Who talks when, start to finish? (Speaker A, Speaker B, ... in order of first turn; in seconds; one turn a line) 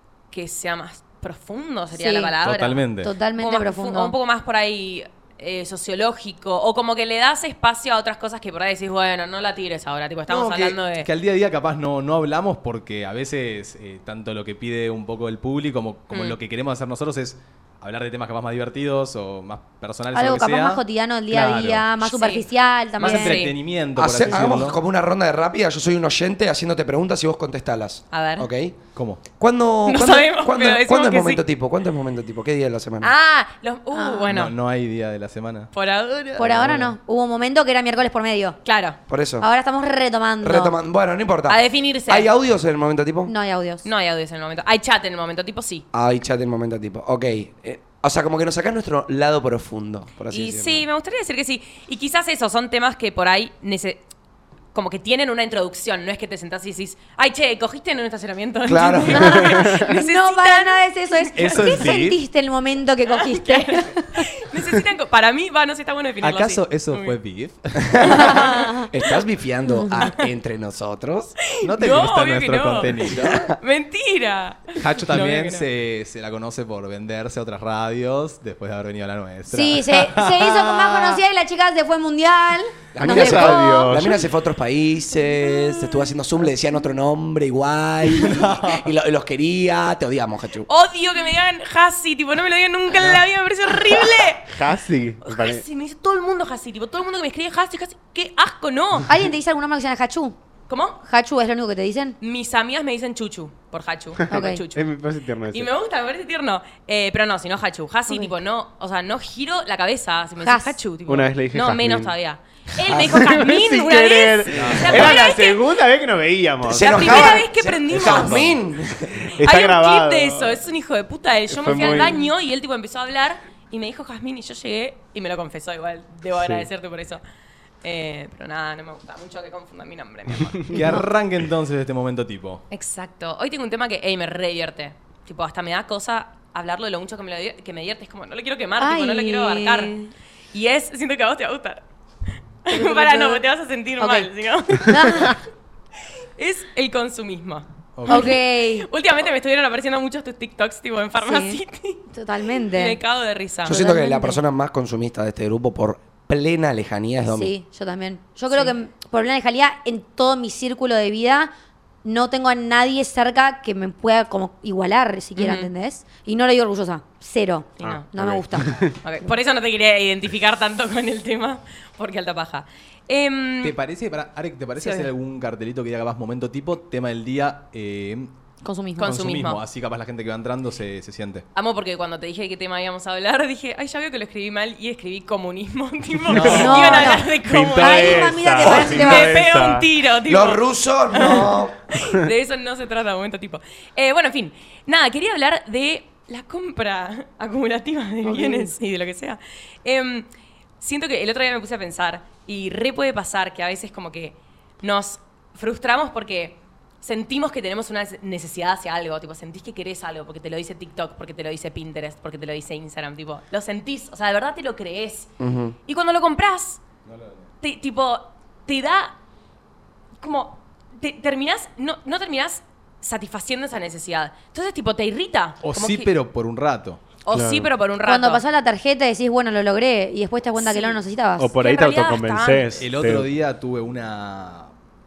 Speaker A: 0.3-2.8
Speaker B: 1.9-2.3
Speaker C: 2.4-3.1
Speaker B: 3.0-4.1
Speaker A: 3.4-11.1
Speaker C: 10.3-22.0
Speaker A: 16.1-16.4
Speaker B: 20.1-23.5
Speaker A: 22.0-23.5
Speaker C: 23.0-24.8
Speaker D: 24.0-28.8
Speaker A: 28.1-28.5
Speaker C: 28.9-29.2
Speaker D: 29.3-33.1
Speaker A: 29.9-31.4
Speaker A: 33.0-34.5
Speaker B: 33.9-34.3
Speaker C: 34.3-35.7
Speaker A: 35.7-36.7
Speaker B: 36.4-38.6
Speaker C: 36.5-36.9
Speaker A: 38.6-39.0
Speaker D: 39.1-39.5
Speaker B: 39.4-40.7
Speaker D: 40.4-43.3
Speaker A: 41.5-42.3
Speaker B: 43.3-43.9
Speaker A: 43.8-45.8
Speaker D: 45.9-50.9
Speaker A: 50.3-54.0
Speaker A: 54.7-61.8
Speaker D: 58.6-59.5
Speaker B: 59.2-64.3
Speaker E: 59.5-59.9
Speaker C: 61.3-62.2
Speaker A: 63.1-67.2
Speaker C: 66.2-68.3
Speaker D: 67.9-71.3
Speaker A: 68.0-69.1
Speaker B: 68.2-68.8
Speaker B: 69.7-70.0
Speaker A: 69.9-70.2
Speaker A: 71.5-75.7
Speaker C: 71.6-73.3
Speaker D: 73.1-73.6
Speaker C: 74.8-81.1
Speaker B: 79.5-84.2
Speaker D: 82.9-90.7
Speaker E: 83.0-84.2
Speaker C: 88.2-88.8
Speaker A: 90.7-94.5
Speaker E: 94.5-95.6
Speaker A: 95.2-99.2
Speaker B: 99.1-100.3
Speaker A: 100.7-101.0
Speaker B: 101.0-102.2
Speaker A: 102.2-104.9
Speaker B: 104.3-104.6
Speaker E: 104.7-105.7
Speaker A: 105.5-115.7
Speaker B: 110.4-110.8
Speaker E: 111.0-112.1
Speaker D: 112.8-113.3
Speaker E: 113.1-117.3
Speaker C: 114.5-115.2
Speaker D: 116.6-119.3
Speaker A: 116.8-118.5
Speaker E: 119.2-120.6
Speaker A: 119.4-127.2
Speaker E: 121.5-122.2
Speaker E: 126.4-126.7
Speaker A: 127.8-130.8
Speaker C: 130.7-132.6
Speaker A: 132.7-140.0
Speaker B: 138.8-140.1
Speaker A: 140.5-141.8
Speaker A: 142.6-145.4
Speaker B: 142.7-143.4
Speaker B: 144.0-145.4
Speaker A: 146.3-152.0
Speaker C: 147.9-148.3
Speaker B: 148.1-148.9
Speaker B: 151.2-153.0
Speaker A: 152.6-153.8
Speaker D: 153.7-157.5
Speaker B: 153.7-154.4
Speaker B: 157.2-161.5
Speaker B: 162.0-168.7
Speaker A: 165.3-165.7
Speaker A: 167.8-168.1
Speaker E: 167.8-169.0
Speaker A: 169.0-173.7
Speaker C: 173.6-178.3
Speaker A: 174.8-175.1
Speaker B: 178.6-179.1
Speaker A: 179.0-179.6
Speaker C: 179.0-181.4
Speaker A: 181.5-200.3
Speaker C: 186.3-187.1
Speaker E: 186.3-189.9
Speaker B: 186.5-189.4
Speaker D: 190.2-191.8
Speaker B: 198.2-198.7
Speaker A: 200.8-215.3
Speaker D: 215.4-215.7
Speaker A: 215.8-216.8
Speaker C: 217.1-217.4
Speaker A: 217.6-219.1
Speaker A: 220.2-226.1
Speaker C: 225.6-227.0
Speaker A: 227.2-228.4
Speaker E: 227.3-227.7
Speaker B: 228.0-231.5
Speaker A: 230.6-231.0
Speaker E: 231.4-233.3
Speaker A: 231.6-232.9
Speaker C: 232.8-234.7